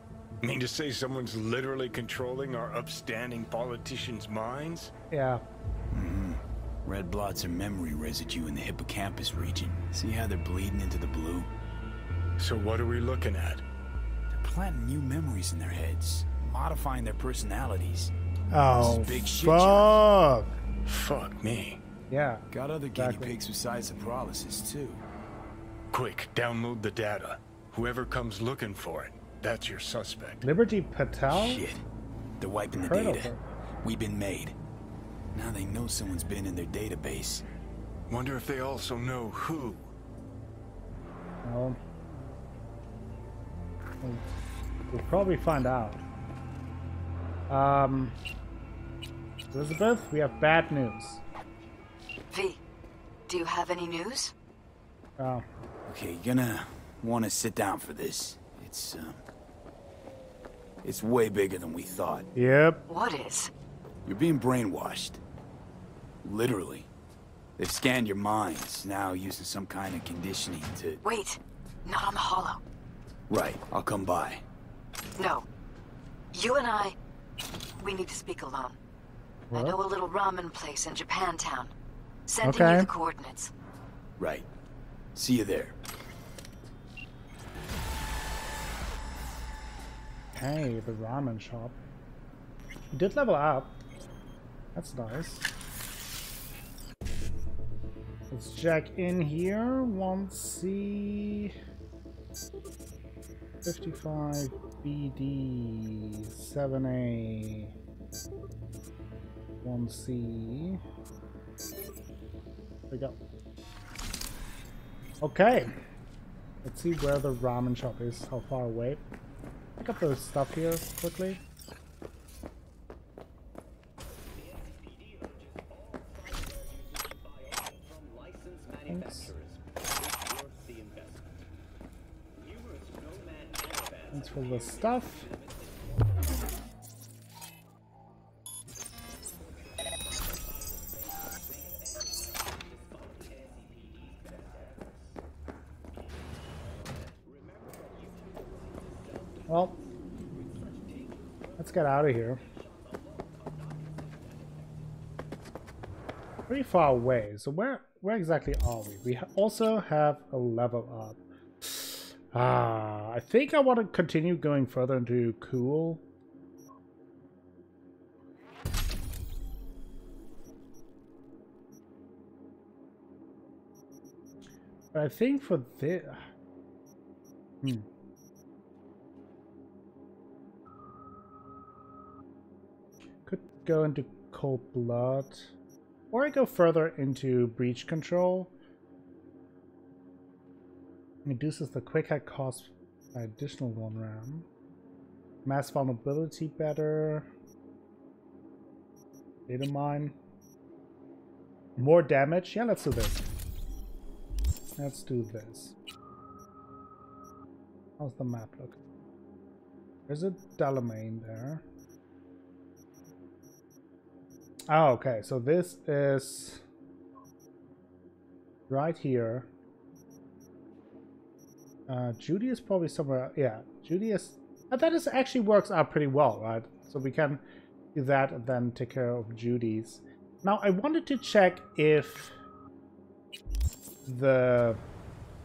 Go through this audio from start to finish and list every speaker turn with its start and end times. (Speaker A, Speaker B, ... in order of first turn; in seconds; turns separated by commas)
Speaker A: 0.4-4.9, Speaker B: 5.1-5.4, Speaker C: 5.9-11.5, Speaker A: 12.4-13.6, Speaker C: 14.3-18.1, Speaker B: 18.5-20.5, Speaker C: 18.8-20.0, Speaker A: 20.9-21.8, Speaker B: 22.1-22.4, Speaker C: 22.5-25.0, Speaker B: 22.9-23.4, Speaker A: 25.9-30.4, Speaker B: 30.4-31.6, Speaker C: 31.3-31.8, Speaker C: 32.4-34.5, Speaker B: 32.7-33.4, Speaker C: 35.3-37.5, Speaker A: 38.1-39.9, Speaker B: 41.4-41.8, Speaker B: 44.9-46.0, Speaker B: 47.5-48.1, Speaker B: 49.5-51.2, Speaker D: 52.3-52.6, Speaker D: 53.3-54.3, Speaker B: 55.2-55.4, Speaker C: 55.9-59.2, Speaker C: 60.8-62.3, Speaker B: 62.3-62.8, Speaker D: 62.9-63.5, Speaker C: 64.0-65.2, Speaker C: 66.2-66.9, Speaker C: 67.6-71.0, Speaker D: 71.0-72.6, Speaker C: 73.3-74.4, Speaker D: 75.2-75.4, Speaker D: 76.3-76.9, Speaker D: 77.8-78.8, Speaker B: 79.5-79.8, Speaker D: 79.5-81.7, Speaker D: 82.3-83.5, Speaker B: 82.4-82.9, Speaker C: 84.2-84.5, Speaker C: 85.1-85.8, Speaker B: 90.3-91.8, Speaker B: 92.9-93.8, Speaker B: 94.7-95.5, Speaker B: 98.3-101.5, Speaker B: 103.6-107.7, Speaker B: 109.6-110.8, Speaker B: 112.9-113.2, Speaker B: 115.2-115.7, Speaker B: 116.6-119.0, Speaker B: 119.8-121.4, Speaker B: 128.9-129.3, Speaker B: 134.1-135.3, Speaker B: 149.5-149.8, Speaker B: 151.6-152.4, Speaker B: 156.5-166.0, Speaker B: 174.9-176.2, Speaker B: 183.2-185.5, Speaker B: 186.1-188.5, Speaker B: 191.2-194.4, Speaker B: 195.4-197.3, Speaker B: 199.5-200.2, Speaker B: 201.8-203.3, Speaker B: 204.8-205.7, Speaker B: 208.0-208.8, Speaker B: 210.1-211.6, Speaker B: 214.7-216.6, Speaker B: 218.7-219.5, Speaker B: 221.9-227.4, Speaker B: 227.9-232.3, Speaker B: 234.1-234.8